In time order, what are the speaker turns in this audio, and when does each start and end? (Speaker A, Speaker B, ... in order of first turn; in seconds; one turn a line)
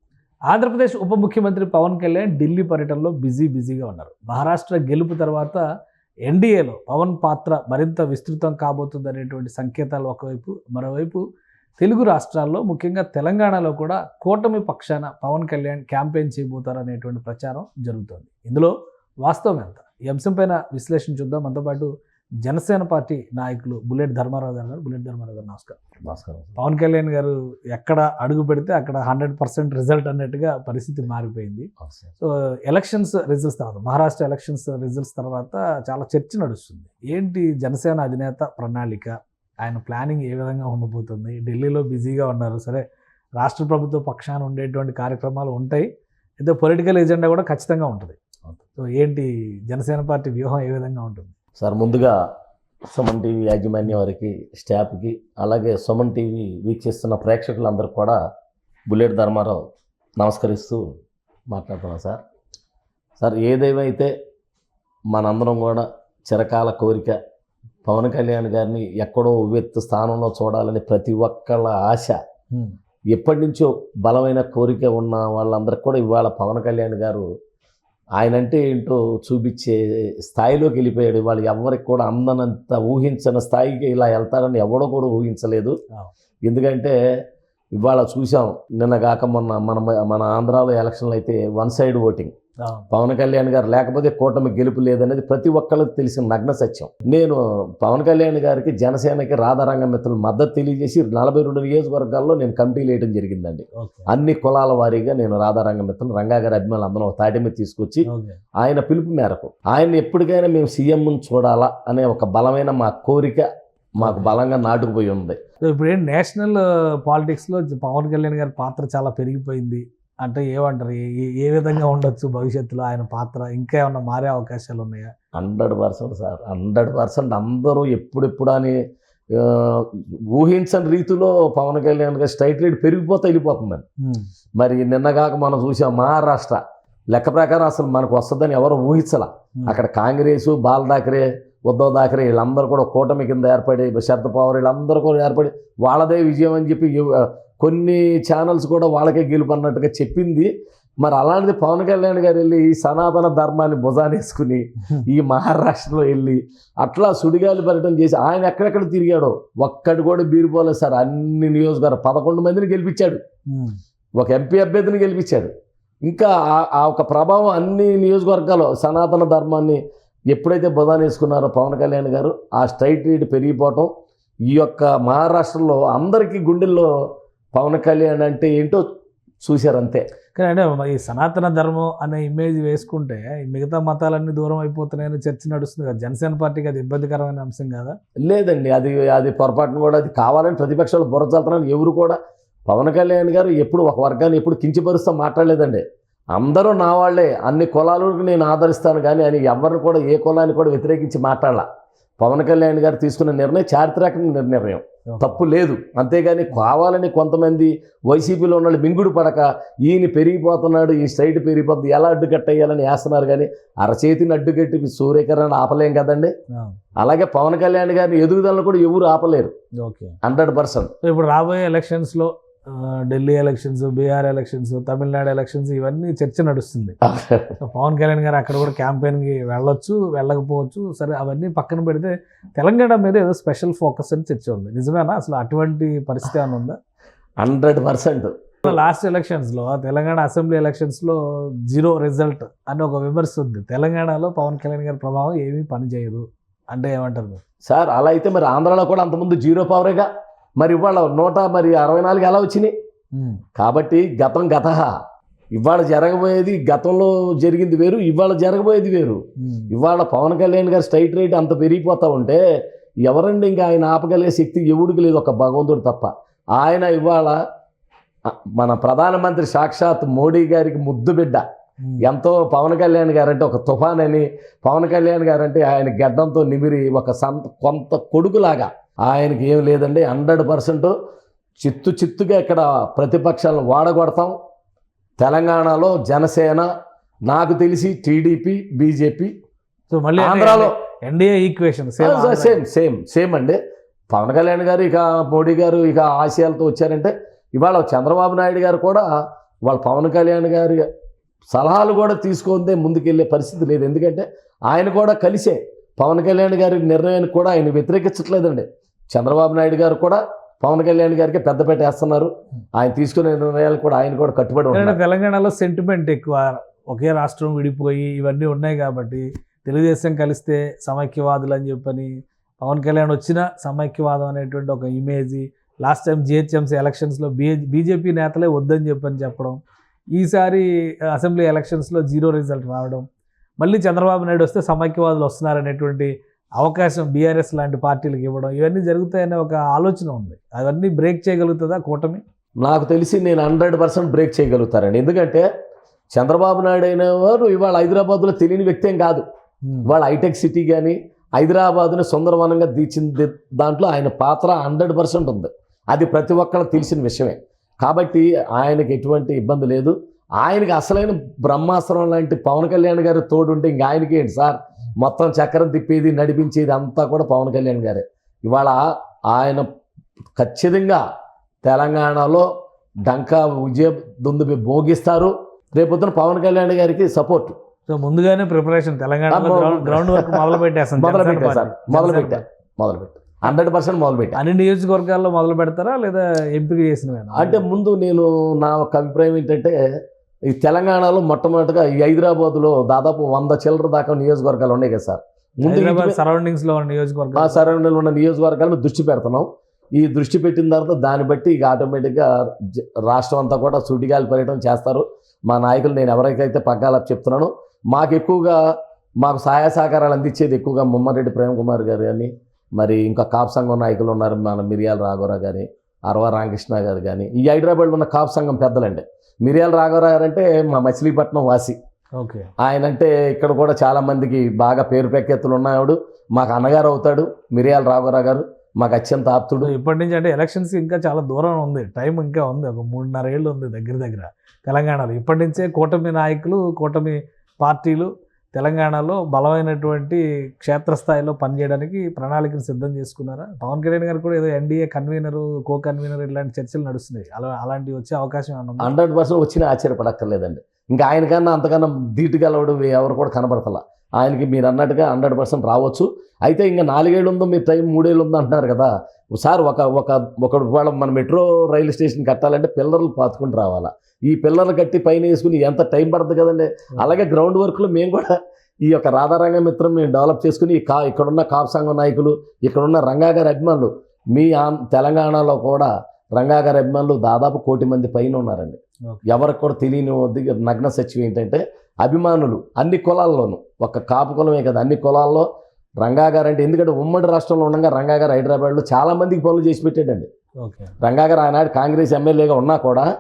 Speaker A: 0.5-5.6
Speaker A: 6.3-11.2
Speaker A: 11.8-21.9
Speaker A: 22.4-25.8
Speaker B: 26.0-26.6
Speaker A: 26.6-42.8
Speaker A: 43.4-45.9
Speaker A: 46.4-48.2
Speaker A: 48.8-51.3
Speaker B: 51.6-52.2
Speaker B: 52.9-58.2
Speaker B: 58.9-59.6
Speaker B: 60.2-61.0
Speaker B: 61.5-62.2
Speaker B: 63.2-64.1
Speaker B: 65.1-67.2
Speaker B: 67.8-72.2
Speaker B: 73.1-77.3
Speaker B: 78.2-85.8
Speaker B: 86.5-87.0
Speaker B: 87.8-92.3
Speaker B: 92.9-108.1
Speaker A: 103.8-104.1
Speaker A: 108.1-108.4
Speaker B: 108.6-115.4
Speaker A: 114.0-114.3
Speaker A: 115.7-125.1
Speaker B: 125.3-128.8
Speaker B: 129.3-133.8
Speaker A: 134.0-134.3
Speaker B: 134.6-136.6
Speaker B: 137.1-150.5
Speaker B: 151.0-163.2
Speaker A: 163.5-163.8
Speaker B: 164.2-165.5
Speaker B: 166.0-169.8
Speaker B: 170.3-173.9
Speaker B: 174.5-176.9
Speaker B: 177.5-178.8
Speaker B: 179.4-180.1
Speaker A: 180.3-188.0
Speaker B: 188.2-201.7
Speaker B: 202.2-216.3
Speaker A: 205.1-205.4
Speaker A: 216.5-216.8
Speaker B: 217.0-219.5
Speaker A: 219.8-220.2
Speaker B: 220.2-220.9
Speaker A: 221.0-227.0
Speaker B: 227.0-227.6
Speaker A: 227.6-236.8
Speaker B: 237.4-238.8
Speaker A: 238.7-247.4
Speaker B: 247.7-252.7
Speaker A: 253.1-253.4
Speaker B: 253.6-254.9
Speaker B: 255.5-262.4
Speaker A: 259.4-259.7
Speaker B: 263.0-267.4
Speaker B: 268.3-271.4
Speaker A: 271.8-272.1
Speaker B: 272.0-280.9
Speaker B: 281.6-284.3
Speaker B: 285.2-286.7
Speaker B: 287.3-289.3
Speaker A: 289.9-292.6
Speaker B: 290.2-290.7
Speaker B: 292.0-293.6
Speaker B: 294.1-299.1
Speaker B: 299.6-300.9
Speaker B: 301.5-315.0
Speaker A: 314.7-329.6
Speaker A: 330.1-333.1
Speaker A: 333.6-342.2
Speaker B: 342.6-345.5
Speaker B: 346.1-349.2
Speaker B: 349.9-369.7
Speaker B: 370.4-371.0
Speaker B: 371.6-372.5
Speaker B: 373.0-377.6
Speaker A: 377.9-382.4
Speaker B: 379.3-384.4
Speaker A: 384.4-387.6
Speaker B: 387.4-389.8
Speaker B: 390.5-396.2
Speaker A: 395.6-397.7
Speaker B: 397.4-408.6
Speaker B: 409.2-421.8
Speaker A: 422.2-422.5
Speaker B: 422.6-429.7
Speaker A: 429.6-448.9
Speaker B: 448.8-485.5
Speaker B: 486.0-490.3
Speaker A: 490.6-490.9
Speaker B: 491.0-493.1